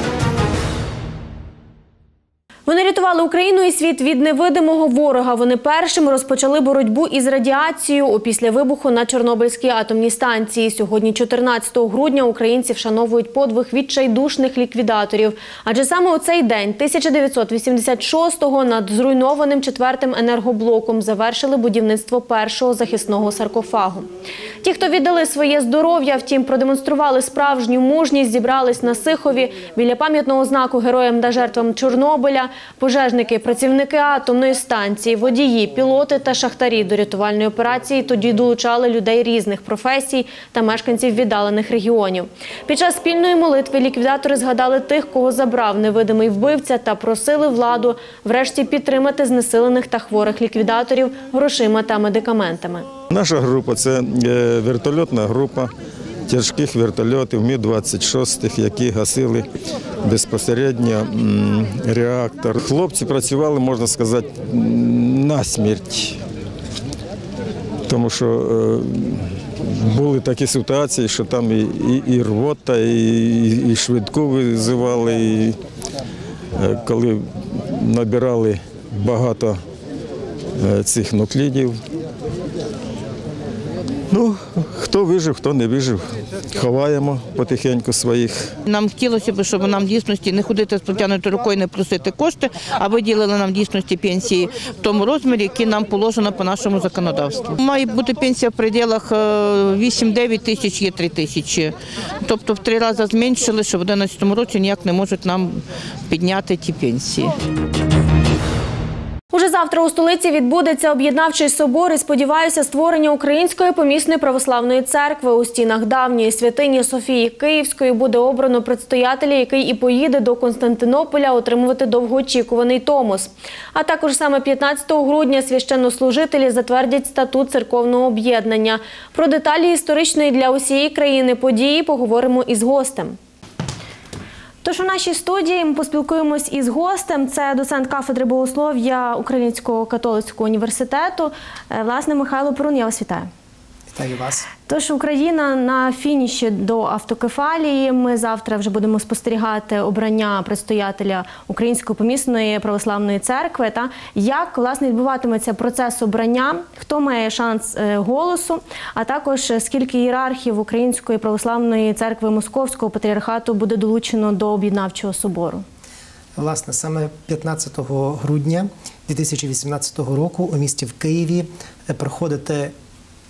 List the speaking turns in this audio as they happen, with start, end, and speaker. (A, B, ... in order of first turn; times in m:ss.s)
0:02.7-0:24.1 A
0:24.6-0:52.9 A
0:53.1-0:55.7 B
0:56.3-0:59.5 B
1:00.0-1:06.2 B
1:07.9-1:15.6 B
1:16.6-1:19.6 B
1:20.6-1:21.8 B
1:24.1-1:28.5 B
1:28.7-1:47.4 C
1:49.3-2:13.2 A
2:14.6-2:23.3 A
2:23.9-2:24.5 D
2:24.7-2:45.6 A
2:46.4-2:52.7 D